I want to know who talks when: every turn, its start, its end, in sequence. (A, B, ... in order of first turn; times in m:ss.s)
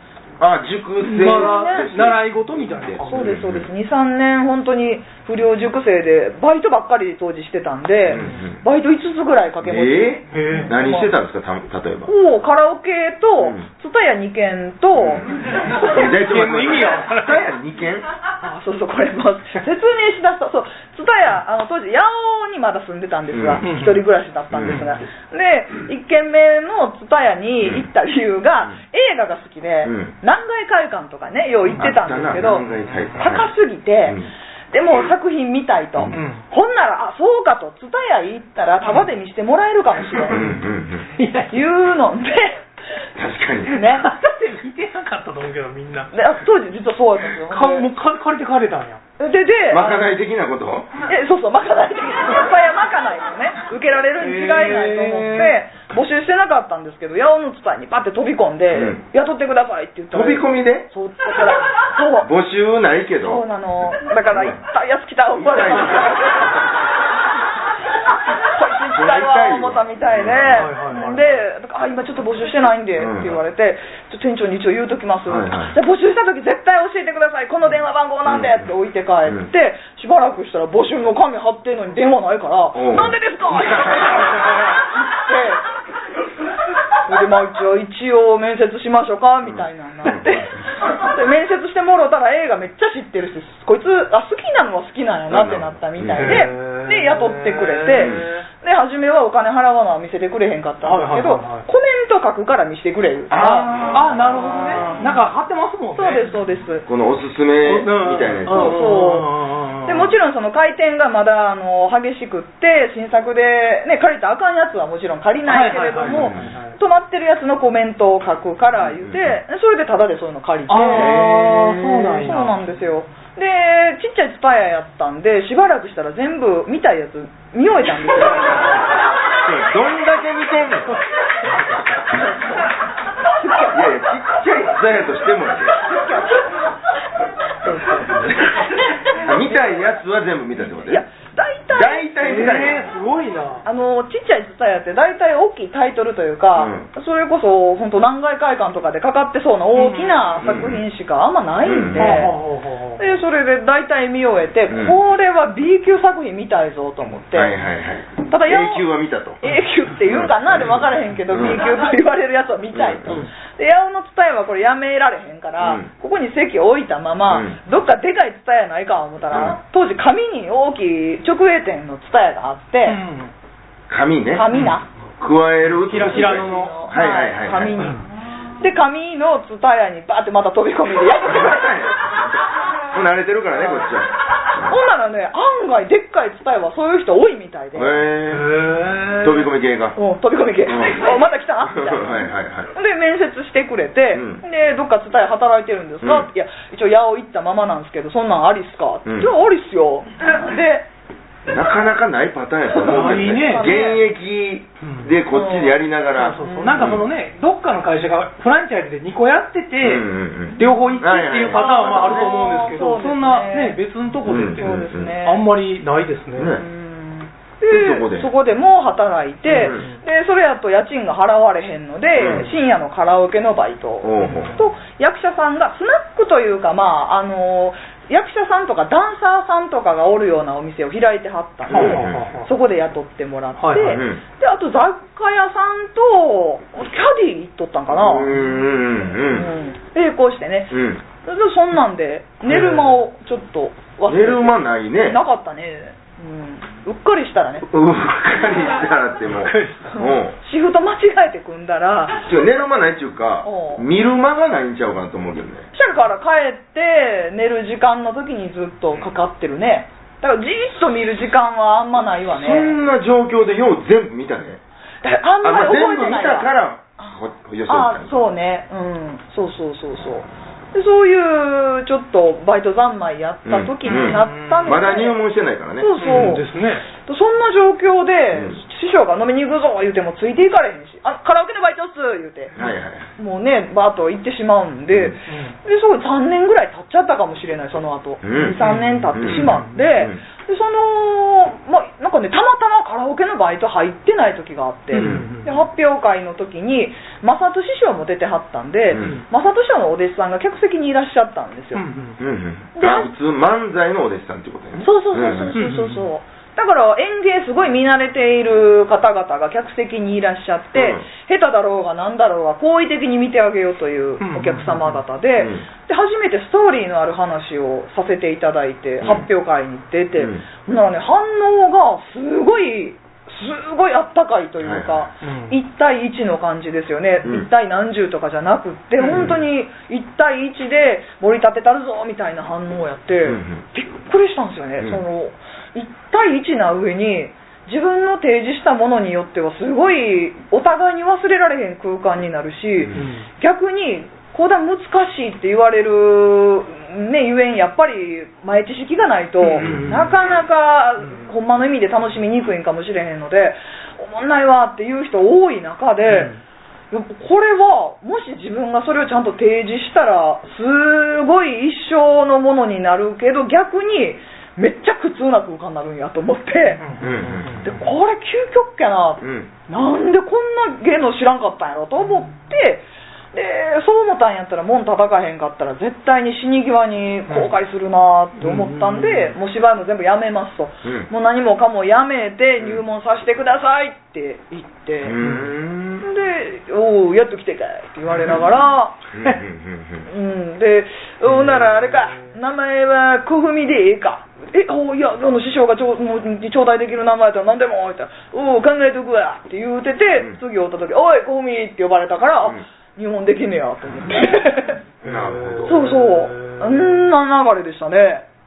0:00.4-0:03.7 A
0:01.0-0:03.3 B
0:01.2-0:01.9 C
0:03.0-0:11.1 C
0:08.1-0:08.6 A
0:09.6-0:12.1 A
0:10.3-0:10.7 B
0:12.1-0:16.0 C
0:13.4-0:13.6 A
0:15.0-0:15.2 A
0:15.7-0:17.5 B
0:15.8-0:18.1 A
0:18.4-0:32.7 C
0:23.3-0:23.6 A
0:23.6-0:24.0 B
0:24.5-0:24.8 A
0:24.6-0:24.9 B
0:29.8-0:30.1 A
0:31.7-0:33.1 B
0:31.8-0:33.5 A
0:33.2-0:34.2 C
0:34.7-0:40.4 C
0:36.1-0:36.4 B
0:40.3-0:40.6 B
0:40.3-0:41.1 A
0:41.1-0:41.6 B
0:41.5-0:42.6 C
0:43.2-0:43.8 A
0:43.7-0:44.1 C
0:43.8-0:46.1 B
0:46.1-0:47.9 C
0:47.5-0:49.0 B
0:49.2-0:50.1 C
0:49.7-0:50.9 A
0:51.0-1:02.3 C
0:54.2-0:55.6 B
0:58.7-0:59.0 A
1:00.1-1:00.9 A
1:02.2-1:03.4 A
1:03.2-1:06.6 C
1:04.3-1:04.6 A
1:05.4-1:06.6 A
1:08.4-1:25.6 C
1:08.9-1:10.7 A
1:10.5-1:11.2 B
1:13.0-1:13.4 A
1:15.3-1:15.8 A
1:18.2-1:18.7 A
1:22.7-1:24.4 A
1:27.1-1:43.9 C
1:29.4-1:30.6 A
1:35.3-1:36.5 A
1:36.2-1:38.4 B
1:38.0-1:38.3 A
1:40.8-1:41.6 B
1:43.3-1:44.1 A
1:43.8-1:46.2 B
1:46.0-1:46.9 C
1:46.9-1:48.8 A
1:47.6-1:50.1 B
1:48.5-2:08.8 C
1:55.5-1:56.7 B
1:56.1-1:56.6 A
1:58.8-1:59.4 A
2:00.7-2:02.6 B
2:09.4-2:11.0 A
2:12.2-2:12.6 C
2:13.2-2:13.9 C
2:13.7-2:15.8 A
2:15.7-2:16.5 C
2:17.6-2:18.4 C
2:18.1-2:21.0 A
2:19.4-2:19.8 C
2:20.8-2:22.7 C
2:21.7-2:22.9 A
2:22.2-2:23.6 B
2:23.6-2:32.4 C
2:26.6-2:26.9 A
2:29.7-2:30.4 B
2:30.4-2:30.8 A
2:31.6-2:32.2 A
2:32.0-2:33.0 B
2:33.0-2:37.6 C
2:34.7-2:35.0 A
2:37.3-2:39.4 A
2:38.3-2:38.9 C
2:39.4-2:53.0 C
2:40.1-2:41.6 A
2:42.7-2:43.3 A
2:45.6-2:45.9 A
2:47.3-2:47.6 A
2:49.3-2:49.6 A
2:52.8-2:53.3 B
2:53.9-2:54.5 A
2:54.3-2:54.9 C
2:54.5-2:54.8 B
2:55.2-2:57.9 A
2:55.8-2:56.8 B
2:56.1-2:58.1 C
2:58.6-3:02.0 C
3:01.3-3:02.1 A
3:02.9-3:04.7 A
3:03.5-3:04.0 C
3:04.6-3:08.0 C
3:07.7-3:08.5 A
3:08.3-3:09.5 B
3:09.2-3:10.0 A
3:10.0-3:20.9 C
3:10.6-3:11.1 A
3:11.6-3:12.7 A
3:14.1-3:14.4 A
3:16.0-3:16.3 A
3:21.5-3:27.0 A
3:22.7-3:24.0 C
3:22.8-3:23.7 B
3:24.8-3:25.1 B
3:25.3-3:25.8 C
3:26.2-3:36.6 B
3:26.4-3:26.9 C
3:29.8-3:32.4 A
3:30.6-3:33.8 C
3:34.2-3:35.1 A
3:34.6-3:35.4 C
3:36.4-3:36.6 A
3:36.5-3:58.5 C
3:37.7-3:38.3 A
3:39.5-3:40.0 B
3:39.6-3:39.8 A
3:42.2-3:42.5 A
3:44.0-3:44.6 A
3:44.2-3:44.6 B
3:51.7-3:52.5 B
3:51.7-3:52.4 A
3:53.6-3:54.0 B
3:53.8-3:54.2 A
3:57.9-3:59.5 A
3:59.2-4:07.7 C
4:00.7-4:01.0 A
4:02.4-4:03.0 B
4:04.1-4:05.2 A
4:07.6-4:10.4 A
4:09.3-4:10.0 B
4:09.9-4:12.6 C
4:12.2-4:15.7 A
4:13.4-4:13.8 C
4:15.7-4:22.7 C
4:22.3-4:24.6 A
4:25.0-4:35.2 C
4:25.4-4:28.2 A
4:33.4-4:36.3 A
4:33.8-4:34.8 B
4:35.8-4:42.6 C
4:36.0-4:36.9 B
4:42.6-4:43.1 A
4:43.2-5:01.8 C
4:45.3-4:45.6 B
4:48.2-4:48.6 A
4:48.6-4:49.8 B
4:49.1-4:50.2 A
4:54.9-4:55.5 B
4:54.9-4:55.3 A
4:58.9-4:59.2 A
4:58.9-4:59.2 B
5:01.7-5:02.2 B
5:02.2-5:05.6 A
5:02.8-5:03.1 C
5:04.8-5:56.3 C
5:05.5-5:06.0 B
5:10.7-5:11.1 A
5:14.2-5:15.0 B
5:15.4-5:15.6 A
5:24.6-5:25.1 A
5:25.2-5:25.6 B
5:29.0-5:29.4 B
5:29.1-5:29.4 A
5:33.2-5:33.6 A
5:42.9-5:43.2 B
5:49.4-5:50.2 B
5:49.6-5:50.1 A
5:56.1-5:56.4 B
5:56.9-6:06.9 C
6:06.8-6:07.8 B
6:07.0-6:07.6 A
6:07.6-6:25.2 C
6:09.2-6:09.5 A
6:18.4-6:19.3 B
6:25.0-6:26.1 A
6:25.2-6:25.5 B
6:26.0-6:29.0 C
6:28.1-6:28.4 B
6:29.1-6:30.1 A
6:30.1-6:44.8 C
6:31.6-6:32.3 B
6:45.0-6:46.9 B
6:45.0-6:45.8 A
6:45.6-6:48.2 C